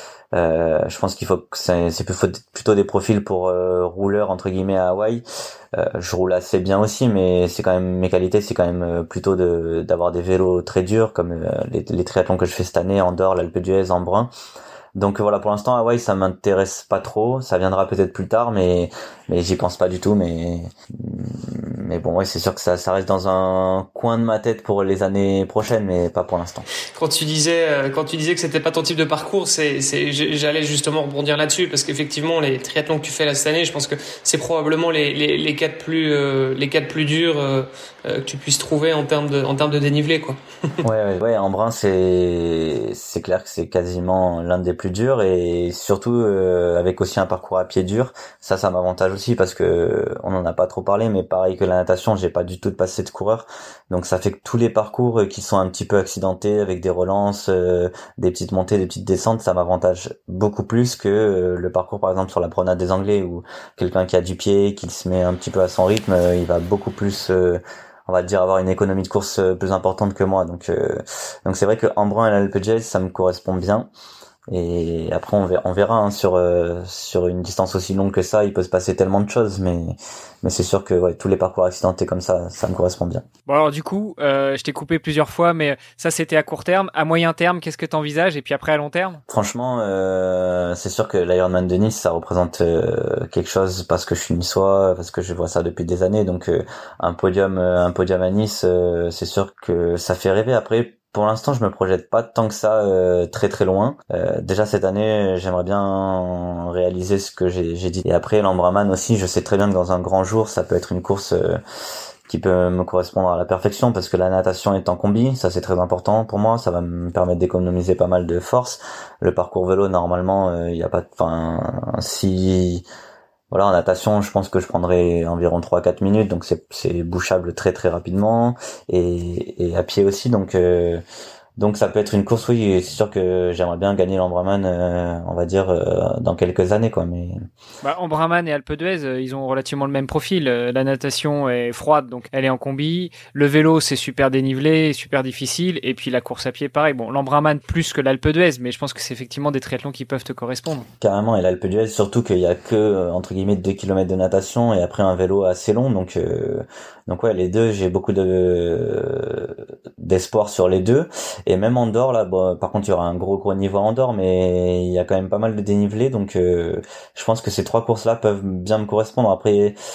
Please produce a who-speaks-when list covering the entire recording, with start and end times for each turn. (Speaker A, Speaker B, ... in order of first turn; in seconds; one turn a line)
Speaker A: 0.3-5.2
Speaker A: 5.8-14.3
Speaker A: 14.9-26.7
Speaker B: 27.0-40.4
Speaker A: 40.8-73.9
Speaker A: 74.5-83.2
Speaker C: 83.5-89.2
Speaker A: 89.3-111.6
Speaker A: 112.3-122.8
Speaker A: 123.5-131.0
Speaker A: 131.6-137.4
Speaker C: 137.8-150.9
Speaker A: 151.0-169.8